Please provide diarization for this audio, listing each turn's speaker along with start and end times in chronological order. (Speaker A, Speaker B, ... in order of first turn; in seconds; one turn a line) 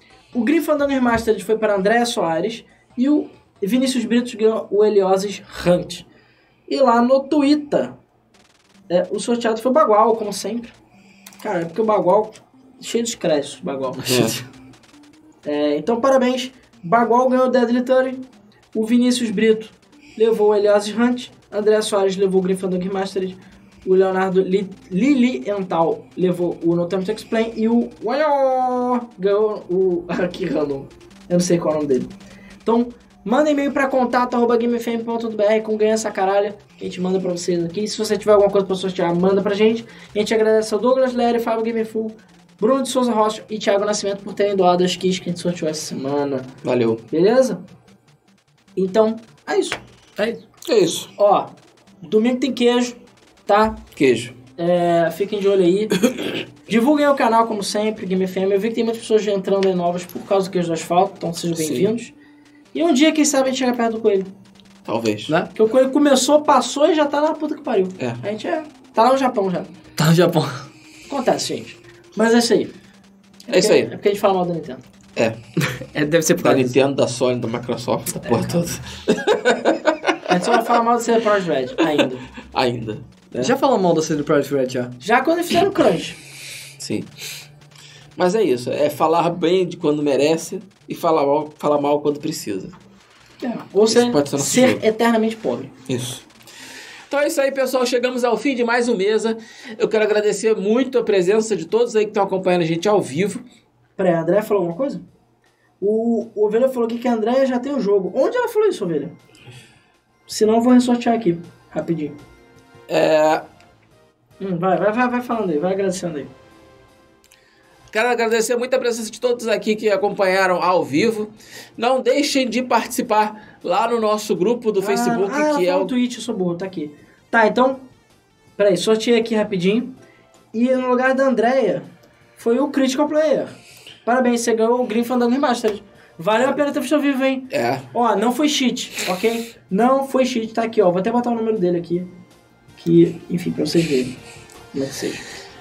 Speaker A: 0.3-6.0
Speaker A: 6.7-8.0
Speaker A: 8.9-10.7
Speaker A: 11.4-14.0
Speaker B: 14.0-14.4
Speaker C: 14.1-14.4
Speaker A: 15.4-18.2
Speaker A: 18.7-32.1
Speaker A: 32.6-46.5
Speaker C: 46.6-47.0
Speaker A: 47.1-47.6
Speaker A: 48.8-49.8
Speaker C: 50.6-51.1
Speaker A: 51.2-53.8
Speaker C: 54.0-54.4
Speaker A: 54.6-56.0
Speaker A: 56.6-62.1
Speaker C: 61.5-61.9
Speaker A: 62.7-64.3
Speaker C: 64.8-65.3
Speaker A: 65.5-69.7
Speaker B: 70.0-70.6
Speaker A: 71.1-72.7
Speaker A: 73.5-74.8
Speaker C: 73.5-73.9
Speaker B: 75.6-76.7
Speaker C: 76.4-80.6
Speaker A: 80.3-82.2
Speaker C: 82.5-83.5
Speaker B: 83.4-85.0
Speaker A: 85.0-86.2
Speaker C: 86.8-87.1
Speaker C: 88.2-92.7
Speaker A: 93.4-95.7
Speaker C: 93.9-94.8
Speaker C: 95.9-96.2
Speaker C: 97.1-103.4
Speaker A: 104.0-105.0
Speaker A: 105.8-109.1
Speaker A: 110.3-112.1
Speaker C: 112.9-113.4
Speaker A: 114.4-116.3
Speaker C: 117.9-125.9
Speaker A: 124.8-127.8
Speaker A: 128.6-129.9
Speaker A: 130.5-142.1
Speaker C: 137.5-137.8
Speaker A: 142.8-144.1
Speaker A: 144.7-145.2